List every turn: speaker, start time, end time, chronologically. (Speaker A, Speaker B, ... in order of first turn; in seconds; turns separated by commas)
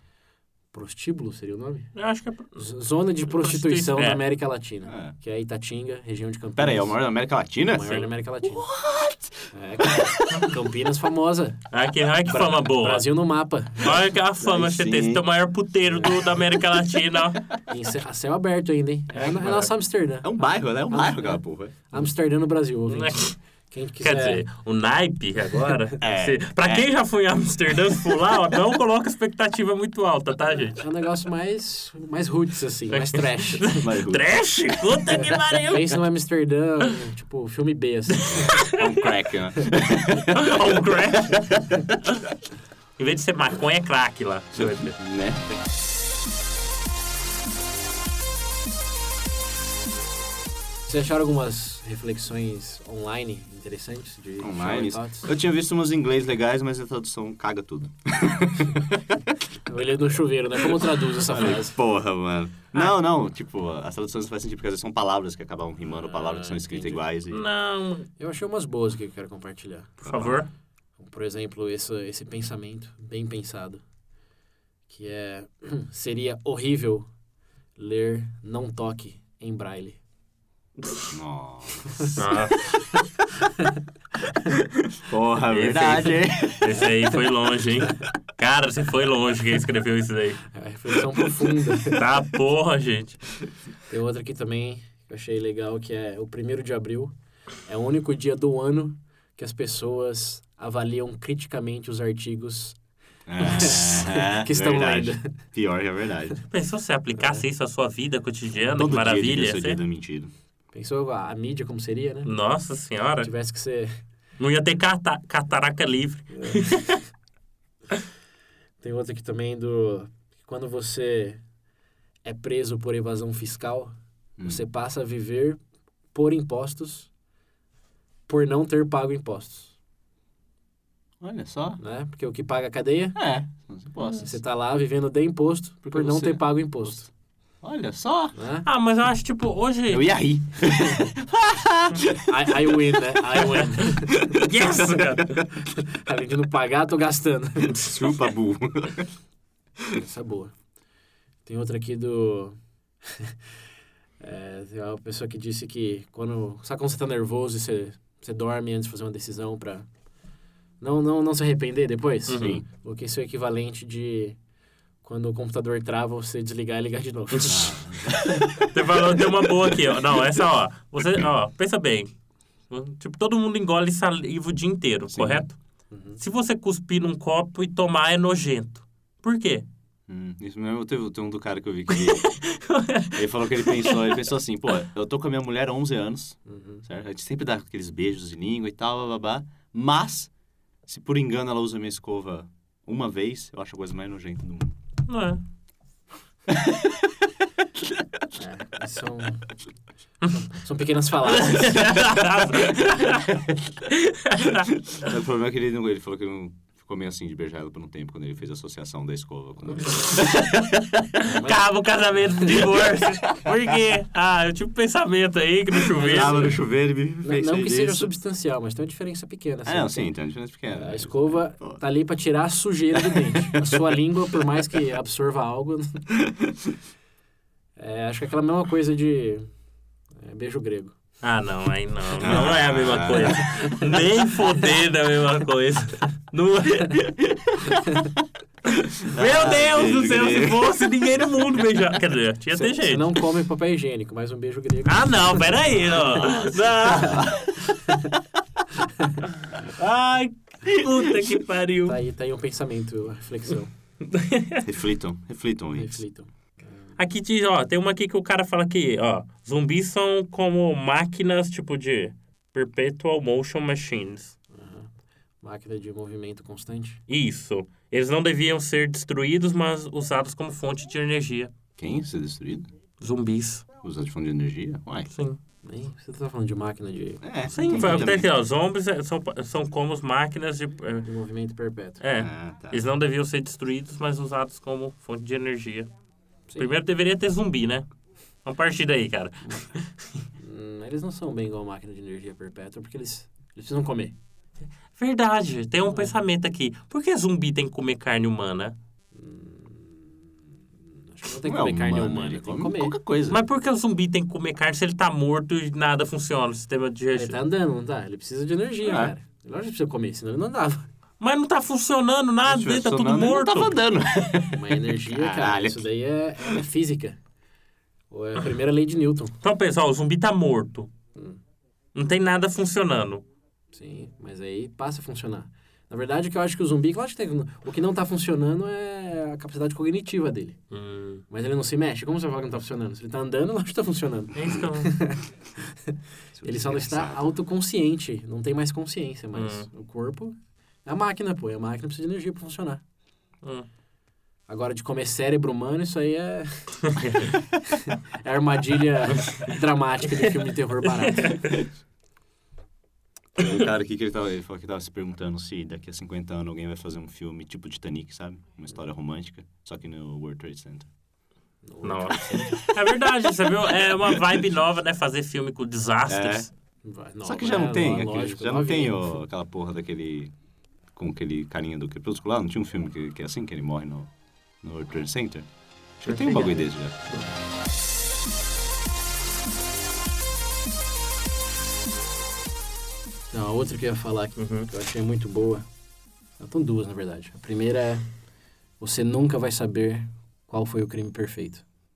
Speaker A: 0.7-1.9, Speaker B: 1.9-2.6, Speaker A: 2.6-7.0, Speaker B: 3.3-4.2, Speaker C: 4.9-5.1, Speaker C: 6.6-10.4, Speaker A: 7.7-8.7, Speaker A: 9.5-11.6, Speaker B: 11.7-13.1, Speaker A: 12.3-14.0, Speaker B: 13.8-17.4, Speaker C: 14.4-15.2, Speaker A: 17.7-20.3, Speaker B: 19.1-19.7, Speaker C: 20.2-21.7, Speaker A: 20.9-24.4, Speaker B: 22.9-23.3, Speaker B: 24.0-30.8, Speaker C: 26.0-26.9, Speaker A: 30.8-33.8, Speaker B: 32.9-36.0, Speaker C: 33.7-34.2, Speaker A: 35.6-38.6, Speaker C: 38.2-42.0, Speaker B: 38.5-38.9, Speaker B: 40.3-41.5, Speaker B: 43.0-44.9, Speaker C: 44.5-45.5, Speaker A: 50.9-55.3, Speaker C: 54.4-59.4, Speaker A: 59.6-61.8, Speaker C: 60.8-67.4, Speaker A: 66.0-67.0, Speaker B: 67.3-68.1, Speaker A: 68.2-70.0, Speaker C: 70.0-70.4, Speaker B: 70.0-70.5, Speaker A: 71.0-73.8, Speaker A: 74.9-77.1, Speaker A: 77.8-80.0, Speaker C: 81.1-82.1, Speaker B: 82.1-82.8, Speaker C: 84.8-86.9, Speaker B: 85.5-90.4, Speaker A: 90.5-92.0, Speaker B: 91.8-93.2, Speaker A: 93.9-97.1, Speaker A: 97.6-102.8, Speaker C: 103.3-106.4, Speaker A: 103.4-105.3, Speaker B: 106.5-109.8, Speaker C: 108.6-110.3, Speaker A: 110.7-112.3, Speaker B: 112.2-113.3, Speaker A: 113.2-113.9, Speaker B: 114.4-117.0, Speaker A: 116.3-116.7, Speaker A: 118.8-121.4, Speaker A: 122.2-125.6, Speaker A: 126.1-127.1, Speaker A: 128.3-129.7, Speaker C: 131.2-131.8, Speaker A: 131.8-133.2, Speaker C: 133.2-134.3, Speaker A: 134.2-137.1, Speaker C: 135.9-136.4, Speaker C: 137.6-138.3, Speaker A: 138.3-138.7, Speaker B: 138.7-140.1, Speaker C: 139.9-142.5, Speaker A: 142.2-144.2, Speaker C: 144.2-145.0, Speaker B: 144.3-145.4, Speaker A: 145.5-147.9, Speaker C: 147.8-149.1, Speaker A: 149.9-150.5, Speaker A: 151.4-153.5, Speaker A: 154.2-159.9, Speaker A: 160.8-164.4, Speaker B: 162.3-162.6, Speaker C: 162.3-162.6, Speaker A: 165.0-167.8, Speaker C: 167.5-168.8, Speaker B: 168.5-172.1, Speaker B: 172.7-175.6, Speaker C: 175.1-175.4, Speaker A: 175.9-176.2, Speaker B: 176.2-179.7, Speaker C: 180.1-182.3, Speaker B: 181.9-184.1, Speaker C: 183.1-190.3, Speaker A: 186.4-186.8, Speaker C: 190.8-194.8, Speaker B: 195.1-195.4, Speaker C: 196.5-197.0, Speaker A: 198.3-199.4, Speaker A: 200.3-201.9, Speaker B: 201.3-203.4, Speaker B: 203.9-204.7, Speaker C: 204.7-210.8, Speaker B: 210.2-210.6, Speaker B: 211.2-216.6, Speaker A: 211.2-211.7, Speaker C: 215.9-218.1, Speaker A: 217.2-220.1, Speaker C: 219.7-221.8, Speaker A: 220.7-226.1, Speaker C: 223.1-223.8, Speaker C: 226.2-226.7, Speaker A: 227.8-229.5, Speaker A: 230.1-230.9, Speaker B: 231.2-237.8, Speaker C: 232.2-233.9, Speaker B: 238.8-243.1, Speaker C: 239.1-240.7, Speaker A: 242.5-247.3, Speaker B: 244.8-247.8, Speaker C: 246.2-247.4, Speaker A: 247.8-248.1, Speaker A: 248.8-249.2, Speaker B: 249.6-251.9, Speaker A: 251.8-253.7, Speaker B: 254.0-254.7, Speaker C: 254.6-256.0, Speaker A: 255.8-256.3, Speaker B: 257.0-264.4, Speaker A: 264.5-264.9, Speaker A: 265.4-267.0, Speaker B: 267.1-271.5, Speaker C: 271.8-272.7, Speaker B: 273.0-273.6, Speaker C: 273.8-275.1, Speaker B: 275.1-275.4, Speaker A: 275.6-277.8, Speaker C: 277.2-278.3, Speaker B: 277.5-281.1, Speaker A: 281.0-282.0, Speaker B: 282.0-285.9, Speaker C: 282.1-282.8, Speaker B: 286.6-287.9, Speaker B: 288.4-290.1, Speaker A: 290.4-294.1, Speaker B: 294.9-298.8, Speaker A: 299.1-300.2, Speaker A: 301.1-302.9, Speaker C: 301.4-303.4, Speaker B: 303.3-307.4, Speaker A: 307.1-310.9, Speaker C: 308.8-309.1, Speaker B: 311.2-313.8, Speaker C: 312.4-315.9, Speaker A: 314.5-317.2, Speaker A: 318.1-319.3, Speaker B: 319.4-320.9, Speaker B: 321.9-323.2, Speaker A: 323.7-330.6, Speaker B: 330.7-331.2, Speaker A: 331.3-342.8, Speaker B: 334.3-335.0, Speaker C: 336.4-337.2, Speaker B: 339.4-339.6, Speaker A: 344.5-346.9, Speaker B: 347.0-347.3, Speaker A: 347.6-351.4, Speaker B: 351.0-351.5, Speaker C: 353.4-360.9, Speaker A: 361.6-362.7, Speaker B: 361.8-366.5, Speaker C: 366.1-366.5, Speaker A: 366.8-369.1, Speaker C: 367.2-370.3, Speaker C: 370.9-374.1, Speaker C: 374.6-375.5, Speaker C: 376.0-377.0, Speaker A: 376.1-376.6, Speaker A: 383.3-385.6, Speaker B: 384.4-384.7, Speaker A: 386.4-388.1, Speaker A: 388.8-391.6